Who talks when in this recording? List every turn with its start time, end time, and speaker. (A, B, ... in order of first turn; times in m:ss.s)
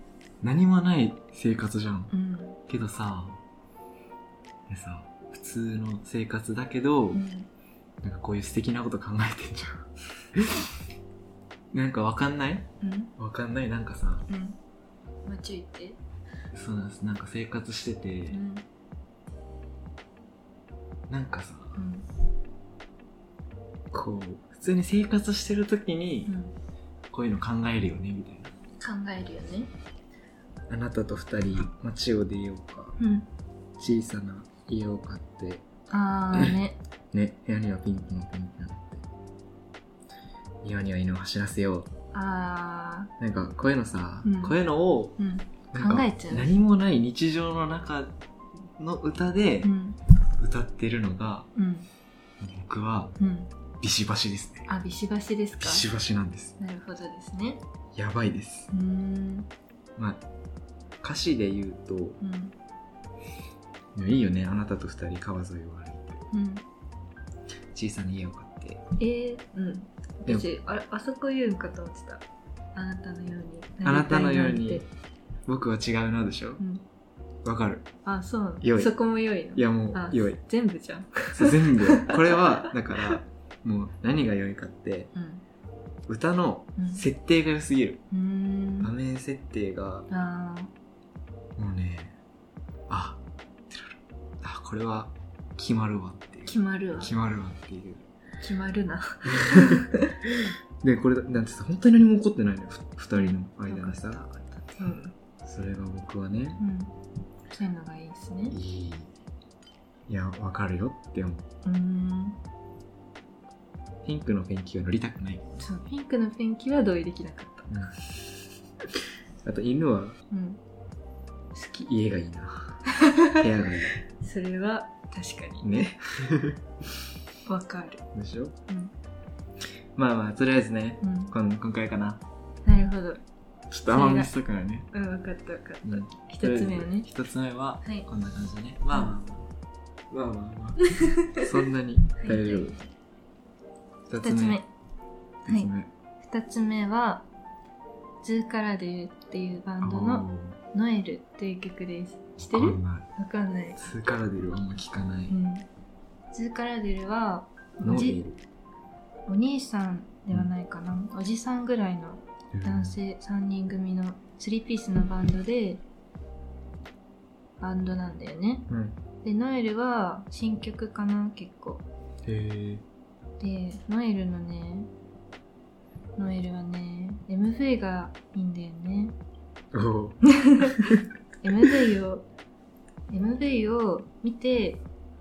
0:00.4-0:02.1 A
0:02.1-0:02.6 B
0:02.7-0:03.4 A
0:04.7-0:07.2 A
0:07.1-0:07.5 B
0:08.0-0:10.7 A
0:11.7-0:14.2 A
0:12.8-0:13.1 B
0:14.3-0:14.6 B
0:15.2-0:16.0 B
0:16.5-0:18.4 A
0:18.3-0:18.6 B
0:21.1-0:21.8 A
0:21.7-0:22.1 B
0:23.9-0:26.3 A
0:26.2-0:26.5 B
0:27.1-0:28.5 A
0:28.8-0:29.7 B
0:30.7-0:33.0 A
0:33.0-0:33.3 B
0:33.8-0:35.6 A
0:35.9-0:36.8 B
0:37.1-0:39.0 A
0:40.6-0:41.9 A
0:42.1-0:43.1 B
0:43.2-0:45.2 A
0:44.2-0:44.6 B
0:45.2-0:46.5 B
0:45.7-0:48.1 A
0:48.8-0:49.7 A
0:49.6-0:50.0 B
0:50.4-0:51.5 A
0:51.5-0:51.9 B
0:52.4-0:53.2 A
0:53.2-0:53.5 B
0:53.8-0:54.7 A
0:54.7-0:55.8 B
0:55.6-0:56.5 A
0:56.6-0:57.6 B
0:57.9-0:58.7 A
0:58.7-0:59.5 B
1:00.0-1:00.2 A
1:01.0-1:02.2 A
1:02.2-1:02.5 B
1:03.9-1:06.3 A
1:06.3-1:06.6 B
1:07.7-1:08.8 A
1:09.0-1:12.2 B
1:10.2-1:10.6 A
1:12.7-1:14.9 B
1:13.8-1:14.8 A
1:15.4-1:16.6 A
1:17.4-1:17.9 A
1:18.0-1:23.0 B
1:18.6-1:18.9 A
1:19.5-1:20.4 A
1:21.3-1:25.1 A
1:25.1-1:25.4 B
1:26.1-1:28.0 A
1:26.8-1:27.0 B
1:28.1-1:28.9 B
1:28.8-1:30.1 A
1:30.1-1:30.7 B
1:31.6-1:32.2 A
1:32.9-1:38.0 A
1:36.4-1:37.1 B
1:38.4-1:40.2 B
1:39.3-1:44.2 A
1:43.1-1:45.1 B
1:45.4-1:46.6 A
1:46.6-1:46.9 B
1:47.5-1:48.6 B
1:48.5-1:49.1 A
1:50.1-1:51.4 A
1:51.6-1:52.4 B
1:54.0-1:55.5 A
1:55.6-1:57.9 B
1:57.7-1:58.0 A
1:59.4-2:00.2 A
2:00.3-2:00.6 B
2:01.5-2:01.8 B
2:01.8-2:02.8 A
2:02.8-2:03.5 B
2:03.4-2:03.9 A
2:04.0-2:06.0 B
2:05.6-2:06.6 A
2:07.4-2:08.0 B
2:08.1-2:08.5 A
2:08.7-2:08.9 B
2:10.0-2:12.2 A
2:11.0-2:11.3 B
2:12.6-2:13.2 B
2:13.7-2:14.9 A
2:13.9-2:14.3 B
2:14.9-2:17.1 B
2:15.8-2:19.5 A
2:20.1-2:22.8 A
2:21.0-2:21.4 B
2:22.2-2:22.9 B
2:24.1-2:24.6 A
2:24.2-2:24.6 B
2:25.4-2:25.9 A
2:26.2-2:27.2 B
2:28.2-2:33.8 B
2:29.8-2:30.6 A
2:32.4-2:33.1 A
2:33.8-2:35.3 A
2:35.3-2:35.6 B
2:36.3-2:38.2 B
2:37.8-2:38.4 A
2:39.3-2:45.8 B
2:42.5-2:43.0 A
2:47.6-2:48.7 B
2:48.7-2:49.0 A
2:49.2-2:51.8 B
2:52.2-2:52.8 A
2:53.4-2:54.9 B
2:56.2-2:59.2 B
2:59.7-3:00.2 A
3:00.2-3:00.8 B
3:00.8-3:01.0 A
3:01.4-3:02.2 B
3:03.1-3:04.8 B